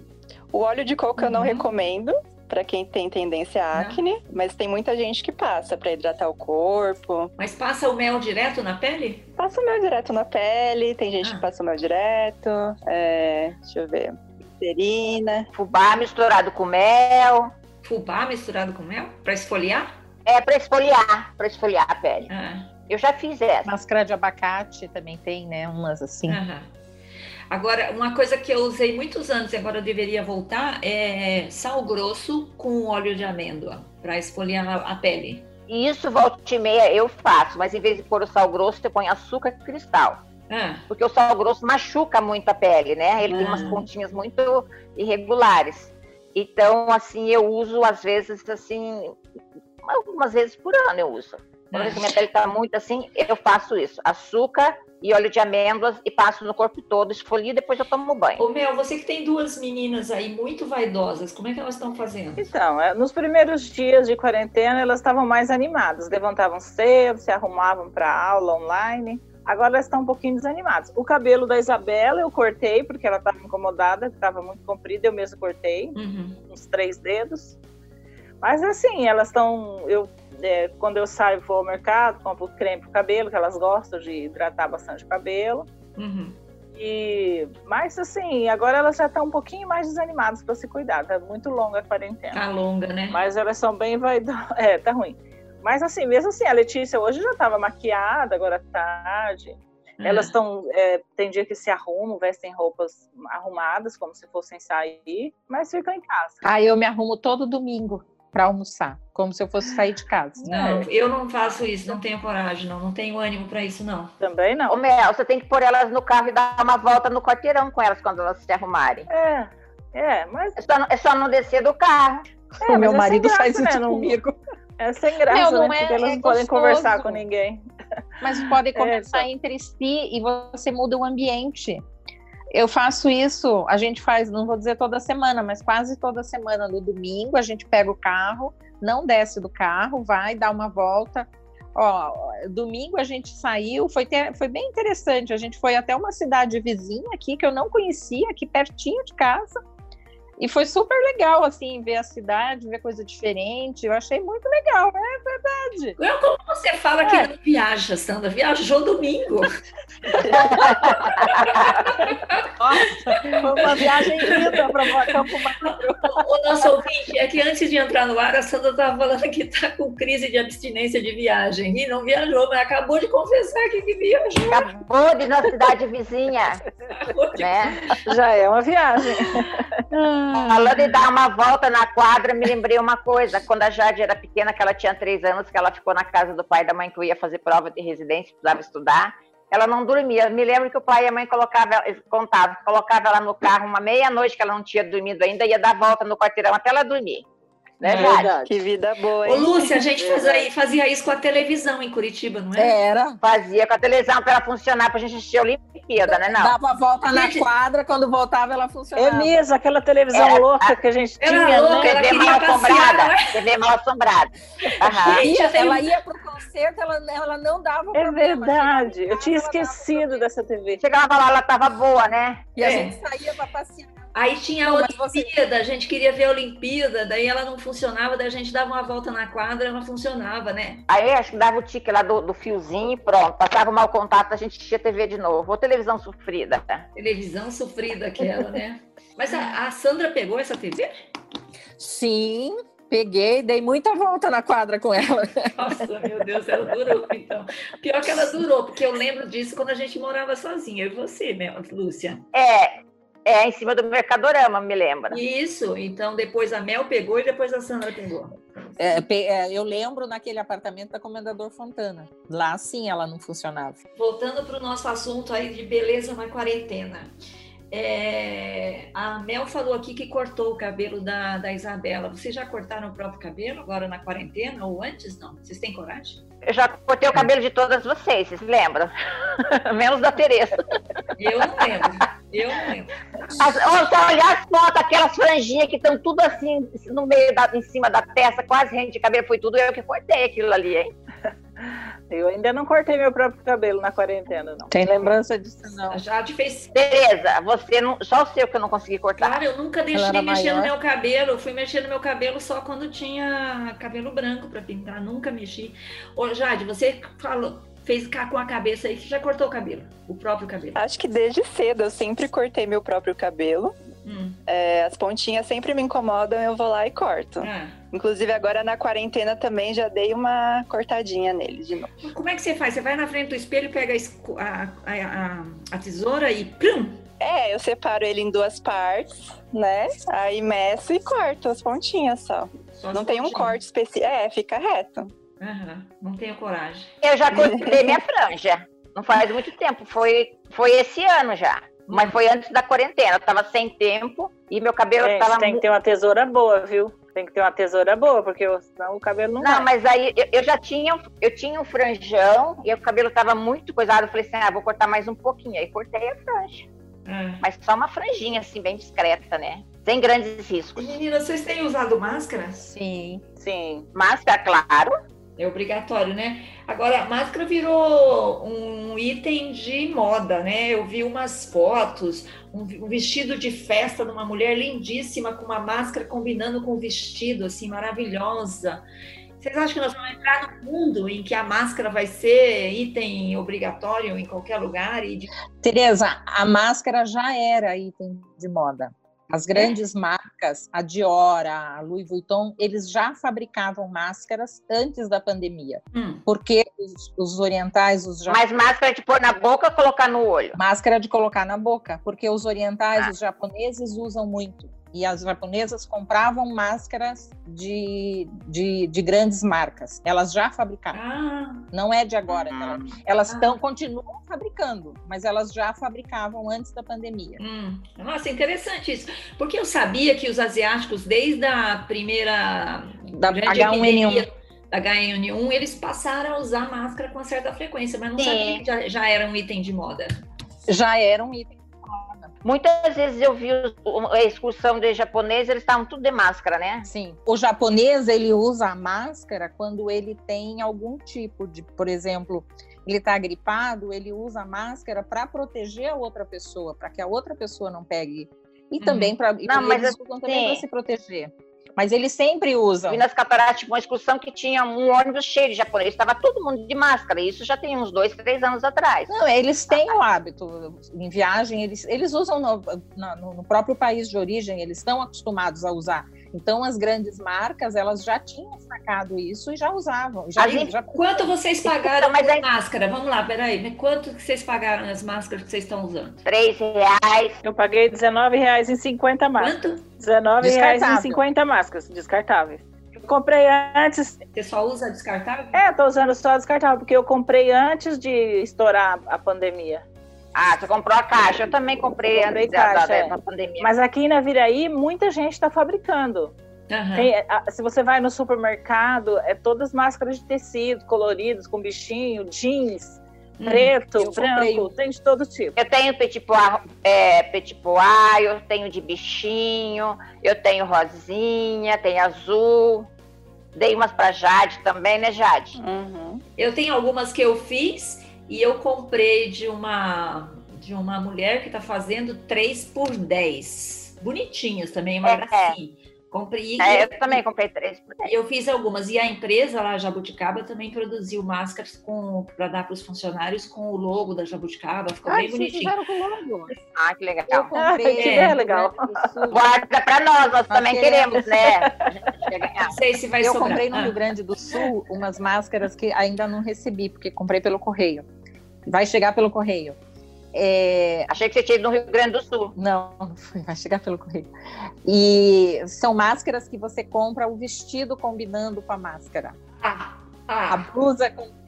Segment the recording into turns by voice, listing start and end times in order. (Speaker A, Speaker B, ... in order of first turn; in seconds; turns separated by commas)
Speaker A: 0.5-7.3, Speaker B: 1.2-1.7, Speaker B: 3.7-4.0, Speaker B: 7.4-9.3, Speaker A: 9.4-15.5, Speaker C: 15.5-17.5, Speaker B: 17.8-19.9, Speaker C: 20.2-22.3, Speaker B: 22.3-22.7, Speaker C: 22.9-23.7, Speaker D: 23.6-26.4, Speaker B: 26.3-26.7, Speaker B: 27.5-35.5, Speaker C: 35.7-40.2, Speaker B: 40.5-40.9, Speaker C: 40.9-49.2, Speaker B: 43.2-43.9, Speaker C: 49.8-58.4, Speaker B: 51.7-52.1, Speaker B: 58.4-62.5, Speaker E: 62.4-76.0, Speaker B: 75.9-76.4, Speaker E: 76.5-77.6, Speaker E: 78.4-85.7, Speaker B: 86.0-86.4, Speaker E: 86.7-92.4, Speaker B: 92.3-93.2, Speaker E: 93.1-106.4, Speaker B: 100.0-100.3, Speaker D: 106.4-110.6, Speaker E: 110.4-110.9, Speaker B: 110.5-114.1, Speaker E: 114.2-114.8, Speaker C: 114.7-119.1, Speaker E: 119.1-120.6, Speaker C: 120.6-122.3, Speaker E: 122.6-124.2, Speaker D: 122.6-124.4, Speaker E: 124.8-127.7, Speaker D: 125.3-127.2, Speaker D: 128.2-131.8, Speaker E: 128.7-129.2, Speaker D: 132.5-149.6, Speaker D: 150.4-156.0, Speaker B: 156.0-159.6, Speaker B: 160.1-174.7, Speaker C: 160.3-161.4, Speaker D: 162.6-166.2, Speaker C: 174.5-176.6, Speaker B: 176.9-178.0, Speaker C: 177.4-177.8, Speaker E: 177.9-179.8, Speaker B: 179.3-180.8, Speaker C: 180.3-197.2, Speaker C: 197.8-198.3, Speaker B: 197.8-198.2, Speaker E: 197.9-198.5, Speaker A: 198.4-200.1, Speaker B: 199.2-202.8, Speaker D: 202.5-203.2, Speaker C: 203.2-206.5, Speaker D: 206.0-209.4, Speaker B: 207.1-207.5, Speaker E: 208.9-212.1, Speaker C: 210.1-210.8, Speaker B: 211.2-213.4, Speaker C: 211.7-215.2, Speaker B: 214.6-215.9, Speaker D: 215.0-220.2, Speaker E: 217.9-220.8, Speaker C: 220.8-222.5, Speaker D: 222.6-224.1, Speaker B: 222.6-223.0, Speaker B: 224.1-230.9, Speaker D: 224.6-225.3, Speaker C: 230.9-236.8, Speaker B: 236.9-240.9, Speaker D: 241.8-245.8, Speaker B: 245.6-252.2, Speaker C: 252.3-255.2, Speaker B: 255.1-259.0, Speaker D: 258.8-263.8, Speaker B: 264.0-267.1, Speaker B: 267.7-276.2, Speaker C: 276.4-280.8, Speaker B: 281.1-283.0, Speaker C: 283.3-290.9, Speaker E: 291.6-294.7, Speaker D: 294.7-296.0, Speaker B: 295.9-296.7, Speaker C: 296.7-299.3, Speaker B: 299.2-310.8, Speaker D: 299.9-300.7, Speaker A: 310.8-313.7, Speaker B: 314.0-314.4, Speaker A: 314.5-321.9, Speaker B: 317.4-317.8, Speaker B: 322.0-327.0, Speaker A: 327.2-335.1, Speaker B: 332.8-333.6, Speaker B: 335.4-336.9, Speaker C: 337.0-345.6, Speaker A: 337.4-337.7, Speaker B: 341.9-342.1, Speaker E: 345.0-349.7, Speaker C: 349.4-356.6, Speaker B: 357.1-357.4, Speaker C: 357.4-360.9, Speaker B: 360.8-362.7, Speaker D: 362.6-363.2, Speaker E: 363.4-363.9, Speaker C: 363.9-364.9, Speaker B: 365.4-378.8, Speaker B: 379.4-385.3, Speaker D: 385.6-398.4, Speaker B: 395.9-396.2, Speaker C: 398.3-400.6, Speaker D: 400.5-411.0, Speaker B: 410.9-411.7, Speaker D: 411.7-417.4, Speaker C: 412.3-412.9, Speaker B: 413.3-413.6, Speaker B: 417.4-430.1, Speaker D: 423.1-424.2, Speaker C: 428.2-428.6, Speaker D: 430.7-432.3, Speaker C: 432.4-436.9, Speaker D: 436.8-453.0, Speaker B: 448.8-449.1, Speaker C: 449.5-450.6, Speaker C: 452.9-459.1, Speaker D: 459.1-471.3, Speaker C: 459.7-459.9, Speaker C: 470.4-470.7, Speaker B: 470.4-476.2, Speaker C: 471.6-472.4, Speaker C: 476.2-477.4, Speaker E: 477.4-484.2, Speaker B: 479.4-479.8, Speaker D: 480.4-481.2, Speaker B: 484.3-485.6, Speaker E: 485.5-489.8, Speaker C: 490.3-493.7, Speaker E: 492.1-496.3, Speaker B: 496.7-497.1, Speaker E: 496.9-505.6, Speaker B: 503.4-503.7, Speaker D: 503.9-504.7, Speaker C: 505.6-512.9, Speaker C: 513.5-515.6, Speaker A: 515.6-516.2, Speaker B: 516.4-527.2, Speaker C: 525.0-525.5, Speaker C: 526.6-528.1, Speaker B: 528.0-535.8, Speaker D: 535.0-536.6, Speaker C: 536.7-537.5, Speaker D: 537.3-539.5, Speaker E: 537.5-539.1, Speaker B: 538.0-538.4, Speaker C: 539.3-542.8, Speaker D: 540.5-541.5, Speaker B: 542.6-544.0, Speaker D: 543.2-548.0, Speaker D: 548.6-549.8, Speaker D: 550.3-551.1, Speaker C: 551.1-552.5, Speaker D: 552.5-559.4, Speaker B: 559.6-560.6, Speaker D: 560.5-561.3